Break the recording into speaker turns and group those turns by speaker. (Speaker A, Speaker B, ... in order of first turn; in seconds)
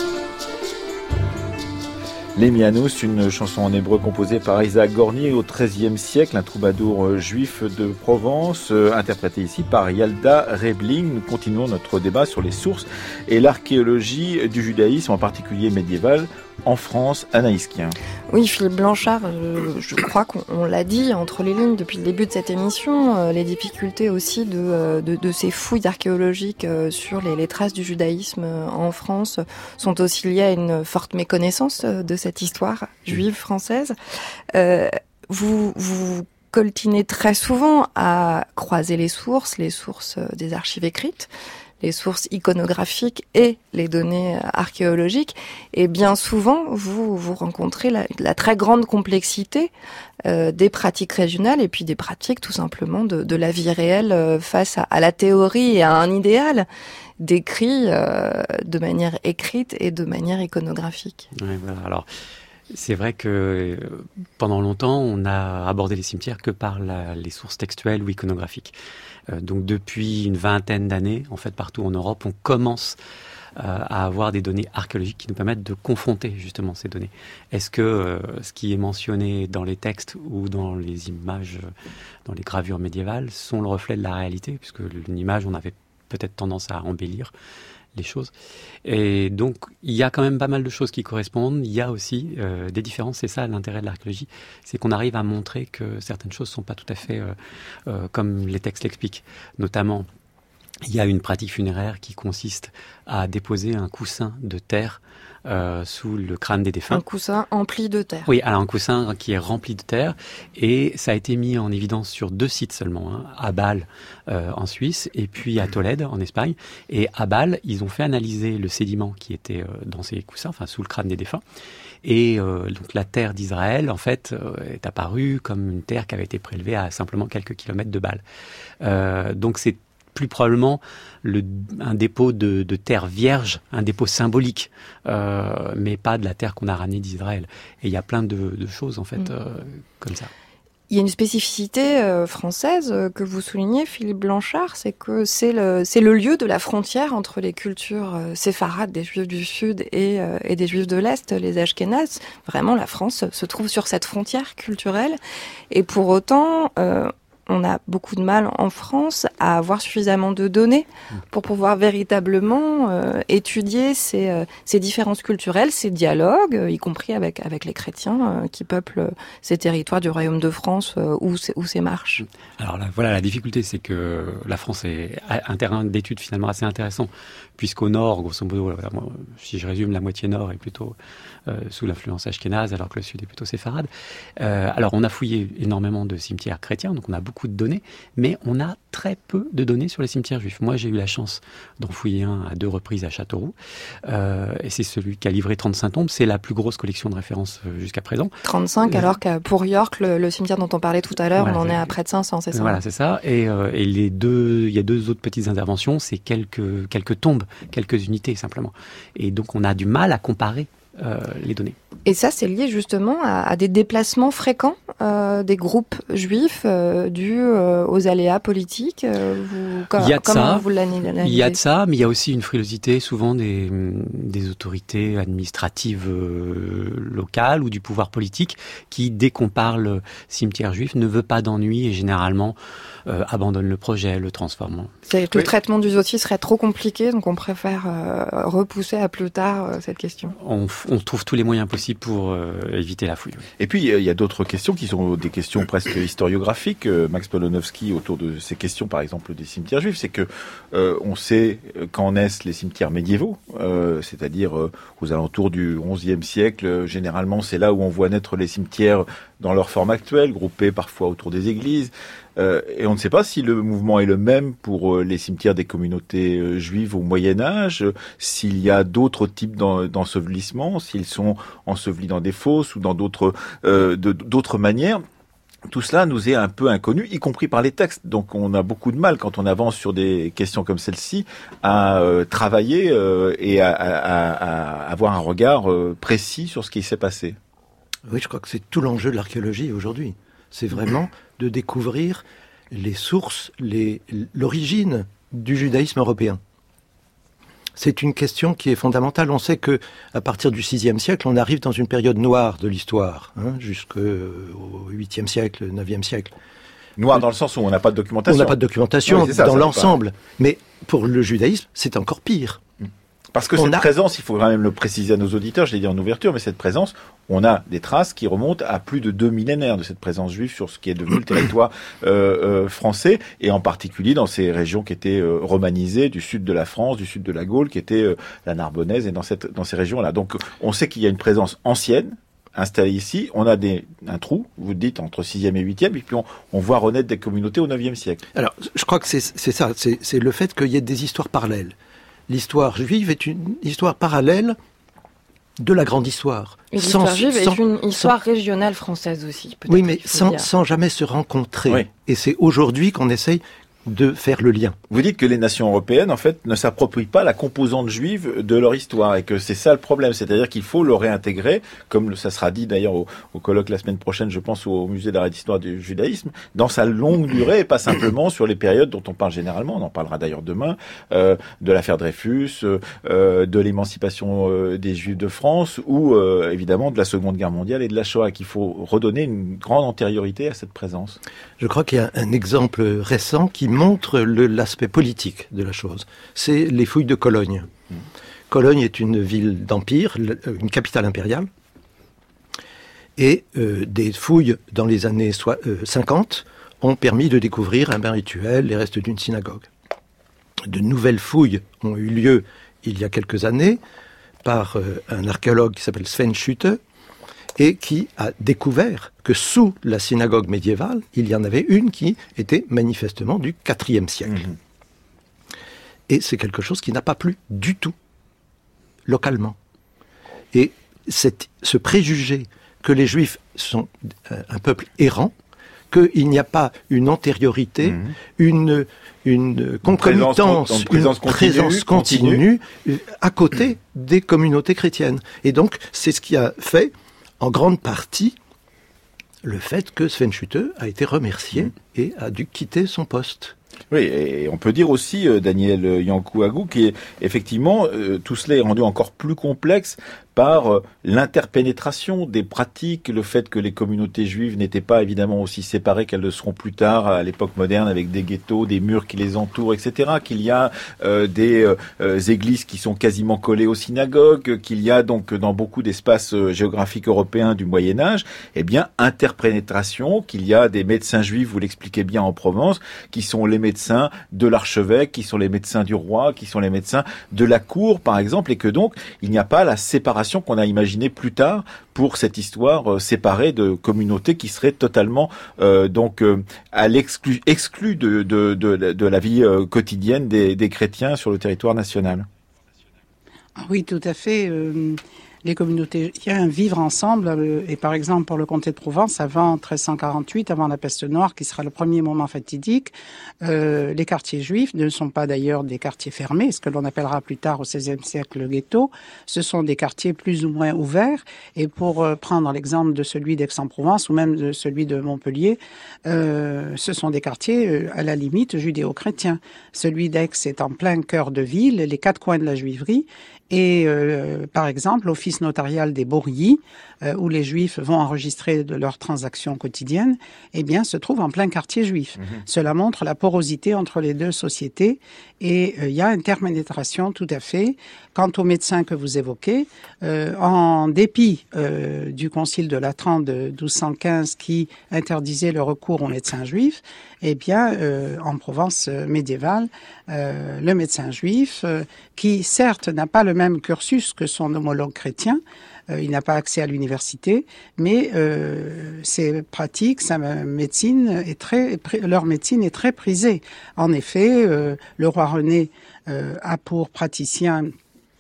Speaker A: 2.4-18.0, 243.6-275.0, 275.7-287.4, 307.0-308.6, 309.1-309.9, 313.4-338.2, 354.9-381.2, 429.9-432.4, 443.9-492.3
Speaker B: 18.3-34.0, 34.5-41.3, 41.8-49.7, 50.2-56.7, 57.2-61.3, 106.9-108.3, 140.9-155.2, 155.7-172.2, 198.4-202.8, 212.1-221.6, 235.1-240.3, 346.7-350.5
Speaker C: 61.4-62.1, 62.7-68.8, 69.3-73.0, 73.6-81.7, 82.2-87.3, 88.0-88.3, 88.8-97.3, 97.9-100.1, 100.8-107.0, 108.3-121.4, 122.0-128.2, 128.8-140.3, 172.6-180.9, 181.5-198.3, 201.4-201.9, 202.5-211.8, 220.0-220.7, 221.2-232.6, 233.1-234.9, 240.4-243.4
Speaker D: 288.1-296.4, 297.8-306.3, 308.3-312.6, 313.6-313.8, 338.3-341.8, 342.3-344.6, 345.6-348.1, 349.7-354.8, 381.6-387.7, 388.5-391.5, 393.2-399.7, 400.7-403.8, 404.4-406.8, 407.6-414.5, 416.1-417.9, 419.1-419.6, 420.5-425.3, 425.9-438.4, 439.4-443.6
Speaker E: 493.6-567.7